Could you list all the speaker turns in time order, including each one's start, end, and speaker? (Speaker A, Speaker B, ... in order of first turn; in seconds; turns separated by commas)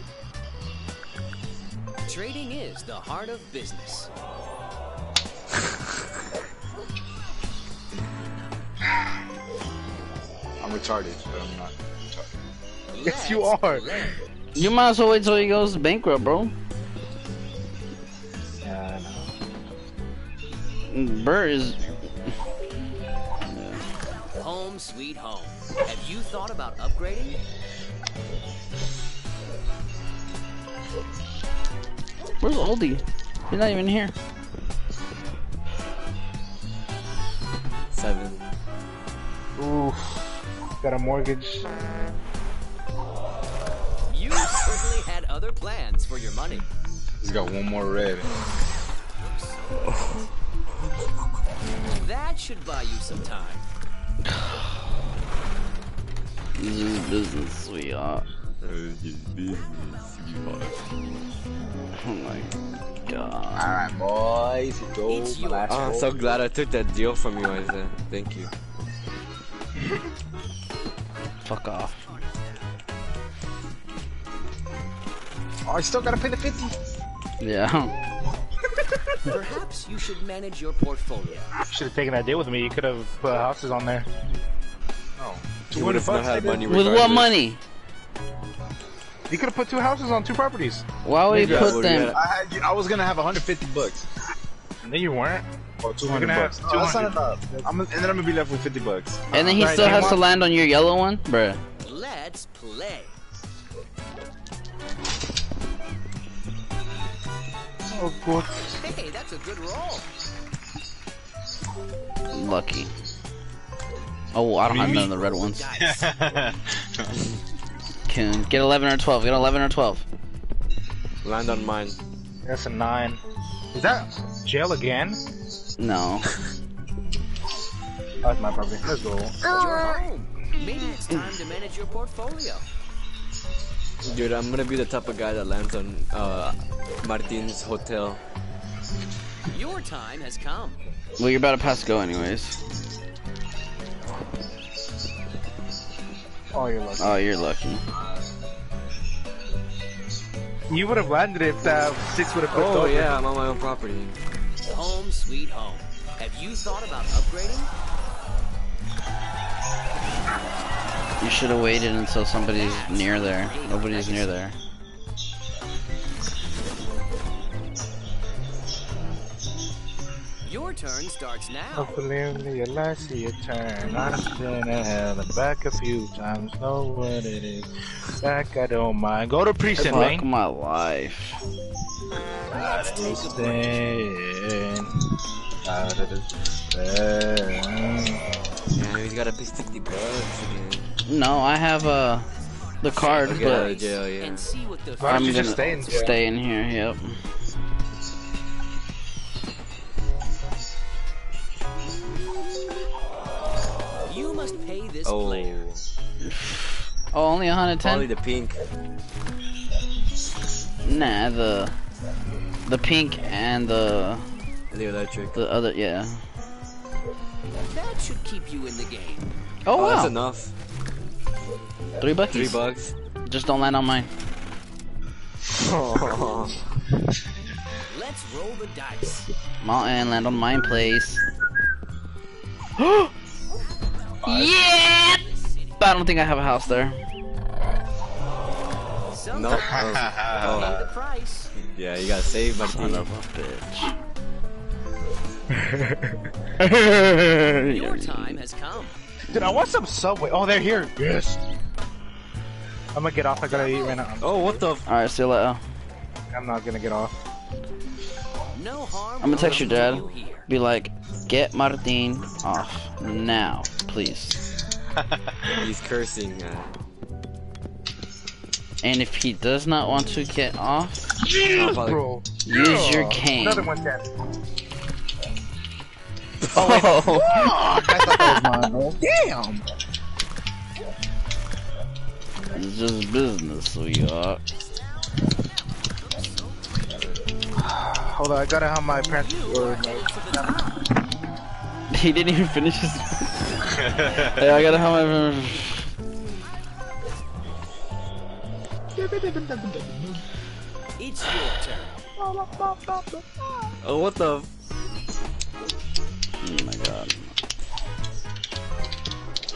Speaker A: 2.1-4.1, Speaker B: 10.6-12.3, Speaker A: 12.9-14.2, Speaker C: 13.0-14.1, Speaker D: 14.6-16.5, Speaker B: 18.6-19.2, Speaker D: 20.9-21.8, Speaker D: 23.5-23.9, Speaker A: 24.3-27.4, Speaker D: 32.4-34.1, Speaker E: 37.9-38.5, Speaker C: 39.6-41.7, Speaker A: 44.1-46.6, Speaker B: 47.2-48.3, Speaker A: 49.2-50.3, Speaker A: 51.9-53.7, Speaker D: 56.6-58.2, Speaker E: 58.6-60.8, Speaker D: 62.0-63.8, Speaker B: 63.5-66.2, Speaker A: 65.1-66.0, Speaker E: 65.7-68.5, Speaker D: 71.5-71.9, Speaker A: 72.0-72.6, Speaker B: 75.7-76.8, Speaker D: 77.4-77.9, Speaker A: 79.3-81.5, Speaker C: 81.7-84.1, Speaker B: 85.2-86.6, Speaker E: 85.7-87.3, Speaker C: 85.7-86.6, Speaker D: 86.7-87.6, Speaker C: 89.3-90.8, Speaker D: 91.0-92.2, Speaker E: 91.3-92.2, Speaker B: 91.4-94.1, Speaker C: 94.8-95.5, Speaker B: 95.8-99.8, Speaker C: 96.0-97.7, Speaker D: 99.3-101.6, Speaker C: 99.4-100.2, Speaker A: 101.8-103.2, Speaker C: 107.9-108.8, Speaker A: 108.8-110.1, Speaker D: 112.3-112.9, Speaker D: 114.3-115.7, Speaker B: 114.7-115.2, Speaker A: 114.8-116.2, Speaker B: 115.8-117.1, Speaker D: 118.1-120.1, Speaker E: 121.2-122.0, Speaker C: 122.5-123.2, Speaker C: 123.7-125.2, Speaker D: 125.8-126.3, Speaker C: 128.2-129.6, Speaker A: 129.5-132.7, Speaker B: 129.7-130.0, Speaker E: 134.1-138.2, Speaker A: 139.5-140.8, Speaker D: 141.2-142.6, Speaker C: 146.5-147.2, Speaker D: 147.0-147.8, Speaker C: 150.7-153.2, Speaker E: 152.5-154.2, Speaker A: 154.7-157.7, Speaker D: 161.2-164.6, Speaker A: 162.5-164.4, Speaker A: 170.4-172.0, Speaker C: 171.8-180.3, Speaker D: 179.8-181.4, Speaker C: 182.5-185.0, Speaker A: 182.5-183.8, Speaker B: 182.6-183.0, Speaker B: 185.6-187.8, Speaker E: 188.7-190.9, Speaker D: 191.1-192.3, Speaker D: 192.8-193.7, Speaker A: 192.8-196.2, Speaker E: 193.2-194.5, Speaker C: 195.0-196.1, Speaker D: 195.0-197.2, Speaker A: 204.1-205.6, Speaker E: 205.1-205.8, Speaker D: 206.3-208.1, Speaker E: 207.8-208.6, Speaker D: 210.8-211.7, Speaker D: 212.7-214.3, Speaker E: 214.7-215.4, Speaker D: 215.3-216.2, Speaker A: 217.7-219.3, Speaker D: 219.7-220.1, Speaker E: 219.7-220.5, Speaker D: 222.0-222.6, Speaker E: 222.3-222.9, Speaker D: 223.3-224.1, Speaker E: 225.5-226.6, Speaker A: 227.8-229.3, Speaker D: 229.6-231.2, Speaker D: 232.8-233.1, Speaker D: 234.2-235.2, Speaker A: 234.3-235.2, Speaker D: 235.8-237.0, Speaker A: 239.1-241.5, Speaker E: 239.3-240.8, Speaker B: 239.5-240.9, Speaker E: 241.5-243.1, Speaker D: 242.6-243.9, Speaker C: 245.5-246.2, Speaker D: 246.6-248.4, Speaker A: 247.5-249.0, Speaker C: 249.3-251.4, Speaker C: 252.9-254.7, Speaker A: 253.5-254.0, Speaker E: 254.2-254.8, Speaker D: 254.9-255.6, Speaker C: 256.3-257.1, Speaker A: 258.5-260.5, Speaker D: 259.2-264.4, Speaker E: 259.5-259.9, Speaker E: 265.6-266.7, Speaker D: 268.8-271.1, Speaker C: 271.3-274.1, Speaker E: 271.4-272.1, Speaker D: 272.4-273.7, Speaker D: 276.5-278.7, Speaker C: 276.6-279.6, Speaker D: 282.6-284.4, Speaker A: 284.5-287.0, Speaker C: 287.6-290.5, Speaker A: 289.0-290.8, Speaker D: 291.9-295.8, Speaker B: 293.7-294.7, Speaker B: 299.0-300.2, Speaker A: 301.0-302.0, Speaker B: 302.2-303.2, Speaker E: 303.8-304.5, Speaker D: 306.4-307.3